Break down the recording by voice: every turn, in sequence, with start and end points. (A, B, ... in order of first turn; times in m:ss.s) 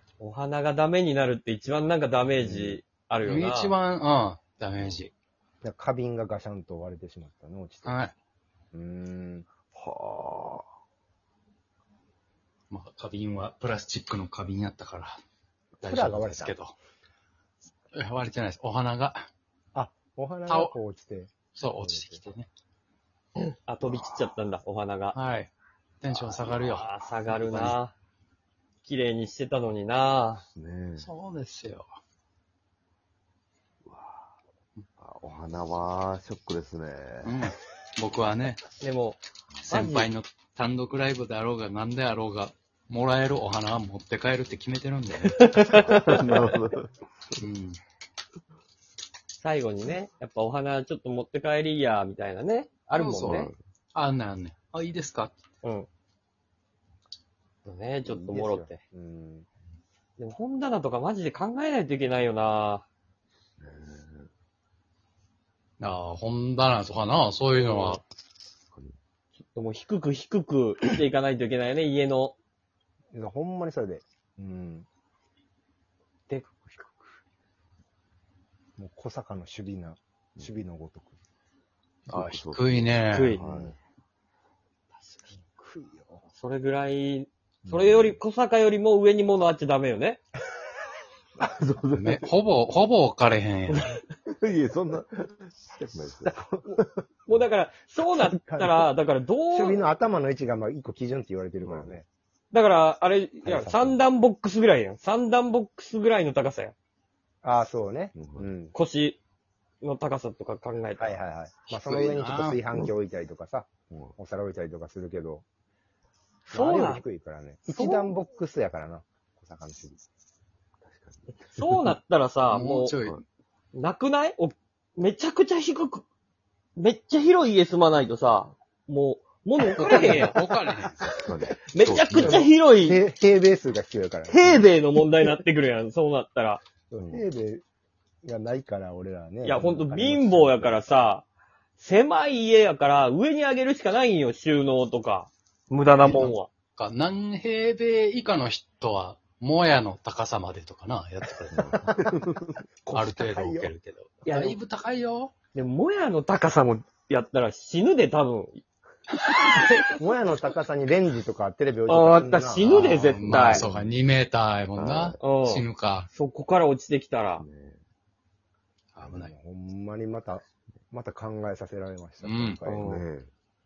0:00.2-0:03.7 A
0:02.4-0:02.8 B
0:03.2-0:05.1 C
0:05.6-0:08.0 B
0:07.8-0:08.1 C
0:08.7-0:09.5 B
0:09.7-0:10.6 D
0:12.7-0:15.2 C
0:15.8-0:16.6 B
0:15.8-0:16.7 C
0:17.9-0:19.3 C
0:19.7-0:22.3 B
0:20.5-0:20.7 C
0:21.5-0:22.5 C
0:23.6-0:25.2 A
0:25.1-0:25.5 C
0:26.0-0:27.8 C
0:26.4-0:27.9 A
0:28.8-0:30.4 A
0:30.5-0:31.1 D
0:31.0-0:31.9 C
0:33.8-0:34.3 D
0:35.0-0:37.4 D
0:37.2-0:38.6 C
0:38.8-0:39.2 A
0:39.6-0:39.9 D
0:39.7-0:45.8 C
0:39.7-0:40.0 A
0:45.2-0:46.5 A
0:45.7-0:46.9 D
0:47.4-0:47.8 C
0:49.4-0:53.5 A
0:52.9-0:55.3 C
0:53.2-0:53.5 D
0:55.6-0:55.9 A
0:57.6-0:58.8 A
0:58.0-0:59.5 B
1:00.2-1:02.8 A
1:03.6-1:04.3 D
1:05.8-1:08.0 C
1:07.6-1:08.0 A
1:09.5-1:12.3 A
1:13.1-1:14.9 B
1:16.3-1:17.0 A
1:18.8-1:21.2 B
1:22.1-1:23.4 C
1:22.1-1:23.8 D
1:23.1-1:23.4 A
1:23.4-1:23.7 B
1:25.0-1:25.3 A
1:25.6-1:26.2 B
1:26.3-1:30.2 A
1:27.6-1:28.0 B
1:31.4-1:32.3 D
1:32.0-1:34.0 C
1:34.3-1:36.4 D
1:36.2-1:36.8 B
1:36.7-1:39.9 A
1:38.0-1:38.9 B
1:39.5-1:42.0 B
1:41.6-1:42.0 D
1:42.5-1:46.7 A
1:43.4-1:44.0 B
1:47.4-1:48.7 B
1:48.1-1:48.5 D
1:48.7-1:49.2 A
1:49.8-1:51.1 A
1:51.0-1:55.4 B
1:51.7-1:52.6 C
1:53.9-1:54.1 D
1:56.5-1:57.0 A
1:56.5-2:00.0 B
1:57.7-1:58.2 A
2:00.8-2:01.4 D
2:01.5-2:03.0 A
2:02.5-2:03.2 C
2:03.7-2:06.0 A
2:06.8-2:13.0 A
2:09.7-2:11.0 C
2:11.0-2:12.5 D
2:12.0-2:14.6 B
2:14.3-2:16.6 A
2:16.9-2:17.6 B
2:18.2-2:20.8 B
2:19.4-2:21.2 A
2:21.8-2:26.5 A
2:26.0-2:26.4 B
2:26.8-2:31.9 C
2:31.6-2:32.5 D
2:31.9-2:32.3 B
2:32.8-2:33.7 B
2:32.9-2:35.3 C
2:34.2-2:34.6 A
2:35.5-2:38.6 A
2:39.5-2:39.9 A
2:40.0-2:43.3 B
2:41.9-2:43.7 A
2:42.6-2:46.1 C
2:43.6-2:43.9 D
2:44.7-2:45.2 D
2:45.2-2:47.4 A
2:47.4-2:47.8 D
2:48.9-2:49.3 C
2:49.0-2:52.9 B
2:52.2-2:52.6 C
2:52.6-2:53.1 A
2:52.7-2:53.3 D